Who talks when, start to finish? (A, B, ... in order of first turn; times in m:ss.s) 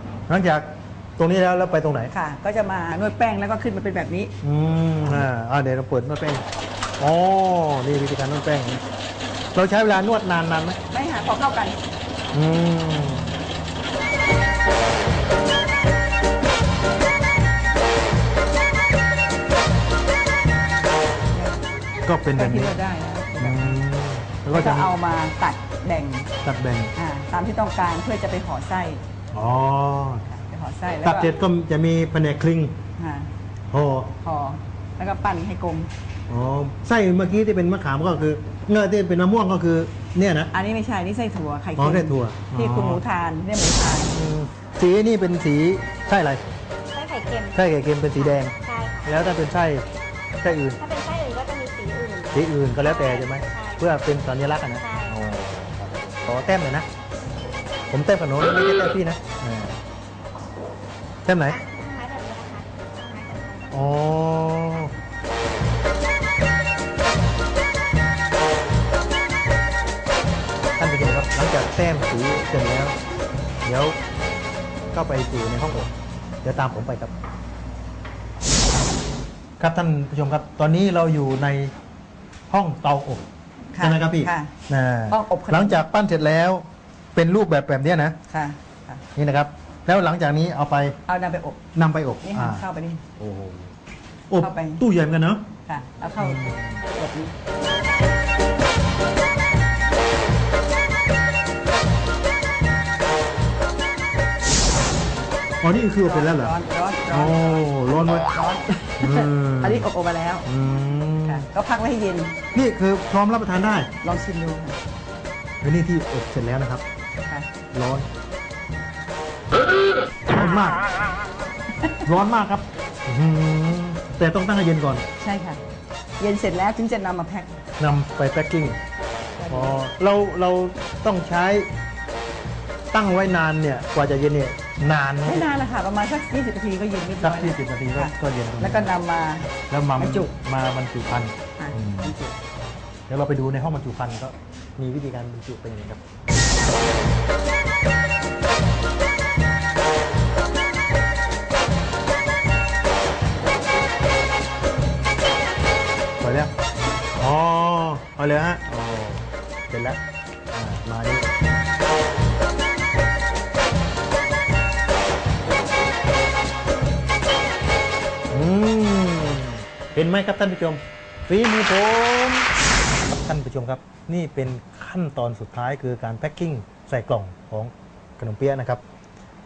0:00.3-0:02.1 A
0:02.1-0:04.3 B
0:04.4-0:06.4 A
0:07.0-0:08.8 A
0:09.5-0:10.8 A
0:10.9-0:11.8 B
0:12.3-0:13.3 A
0:21.3-0:21.6 B
0:22.0-0:22.7 A
0:22.3-0:23.8 B
0:23.4-0:24.9 A
0:24.5-0:26.3 B
0:26.4-0:26.9 A
0:26.9-0:29.0 B
0:29.3-0:30.3 A
0:30.3-0:31.3 B
0:31.0-0:32.8 A
0:33.0-0:33.3 B
0:33.7-0:34.2 A
0:34.2-0:35.9 B
0:36.3-0:40.5 A
0:40.5-0:44.1 B
0:41.8-0:43.0 A
0:44.1-0:46.4 A
0:46.9-0:47.5 C
0:47.5-0:49.8 A
0:48.6-0:49.0 C
0:50.4-0:50.8 A
0:50.8-0:52.4 C
0:52.3-0:56.9 A
0:53.0-0:53.8 C
0:54.8-0:55.1 C
0:57.9-0:59.8 A
1:01.2-1:01.6 A
1:01.6-1:03.7 C
1:03.7-1:04.9 A
1:10.8-1:13.0 A
1:13.6-1:14.0 A
1:14.9-1:15.9 A
1:16.4-1:17.1 A
1:19.6-1:21.7 A
1:22.5-1:23.2 A
1:23.7-1:24.5 B
1:23.8-1:28.2 A
1:25.1-1:25.8 B
1:28.3-1:29.0 B
1:29.2-1:31.0 A
1:31.1-1:31.6 B
1:31.7-1:32.6 A
1:32.2-1:33.0 B
1:33.2-1:33.7 A
1:34.3-1:35.5 A
1:34.4-1:34.8 B
1:35.6-1:37.3 B
1:36.2-1:36.8 A
1:45.6-1:46.5 A
1:46.0-1:50.5 B
1:47.1-1:48.3 A
1:49.0-1:49.9 A
1:50.4-1:51.5 A
1:51.2-1:52.4 B
1:52.5-1:53.9 A
1:54.0-1:54.8 B
1:55.6-1:56.8 A
1:57.2-1:57.5 B
1:57.7-1:58.1 A
2:00.2-2:00.8 A
2:02.0-2:05.0 A
2:05.2-2:05.6 B
2:06.2-2:07.6 B
2:07.8-2:08.8 A
2:09.4-2:09.8 B
2:09.5-2:11.7 A
2:12.9-2:15.4 A
2:15.2-2:20.3 B
2:17.2-2:18.9 A
2:19.7-2:22.1 A
2:21.6-2:22.4 B
2:23.1-2:26.0 A
2:36.2-2:36.5 A
2:37.2-2:40.0 A
2:40.5-2:41.3 A
2:48.3-2:52.5 A
2:53.0-2:58.8 A